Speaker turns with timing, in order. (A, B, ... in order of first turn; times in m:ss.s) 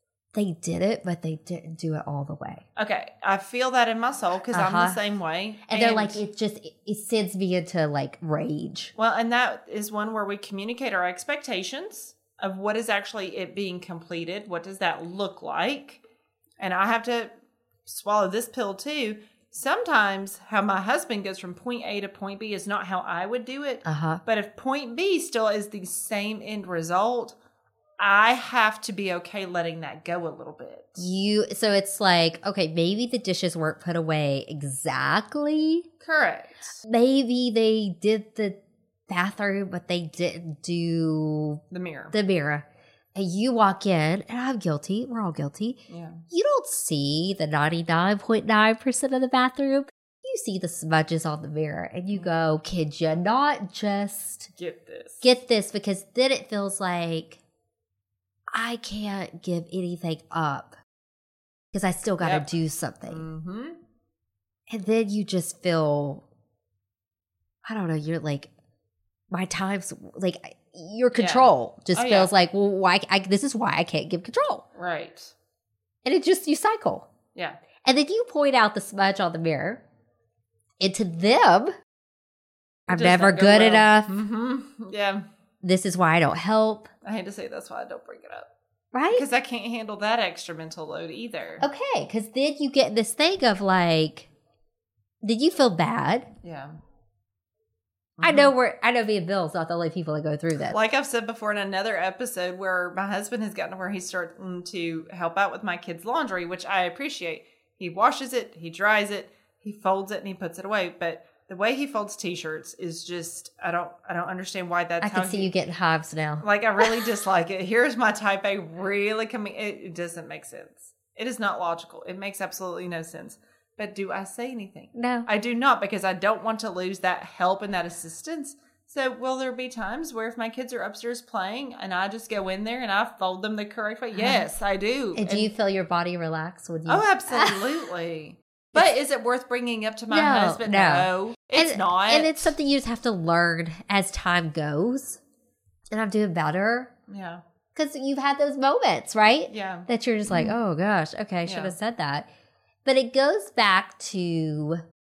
0:00.3-0:02.6 A
0:02.8-0:06.2 B
0:04.5-0:05.0 A
0:05.7-0:08.9 A
0:09.0-0:16.0 B
0:16.6-0:17.3 B
0:17.9-0:27.4 B
0:23.8-0:24.2 A
0:28.0-0:31.0 B
0:31.0-0:35.9 A
0:36.0-0:36.8 B
0:36.9-0:38.6 A
0:39.1-0:41.6 A
0:41.7-0:42.2 B
0:42.1-0:54.5 A
0:45.9-0:46.2 B
0:52.1-0:52.5 B
0:54.6-0:55.2 B
0:55.2-0:57.4 A
0:58.5-1:00.8 A
1:01.7-1:03.2 A
1:02.2-1:02.5 B
1:03.1-1:03.8 B
1:04.7-1:06.2 A
1:07.6-1:08.5 A
1:09.3-1:14.6 A
1:11.1-1:12.3 B
1:14.8-1:15.3 B
1:16.0-1:17.1 A
1:17.4-1:17.6 B
1:17.8-1:19.8 A
1:20.8-1:21.7 A
1:22.9-1:24.1 A
1:22.9-1:25.2 B
1:25.6-1:26.9 A
1:27.0-1:28.5 B
1:28.9-1:29.2 A
1:29.1-1:31.6 B
1:31.6-1:34.3 A
1:35.2-1:36.3 A
1:36.4-1:36.7 B
1:38.2-1:38.5 B
1:38.2-1:40.8 A
1:40.7-1:55.5 B
1:55.0-1:56.9 A
1:56.4-2:15.5 B
2:04.9-2:05.3 A
2:14.1-2:14.5 A
2:15.2-2:17.6 A
2:16.9-2:22.5 B
2:20.1-2:25.2 A
2:25.9-2:26.9 A
2:27.1-2:27.4 B
2:27.8-2:32.3 A
2:29.5-2:30.6 B
2:31.4-2:31.8 B
2:32.8-2:34.8 A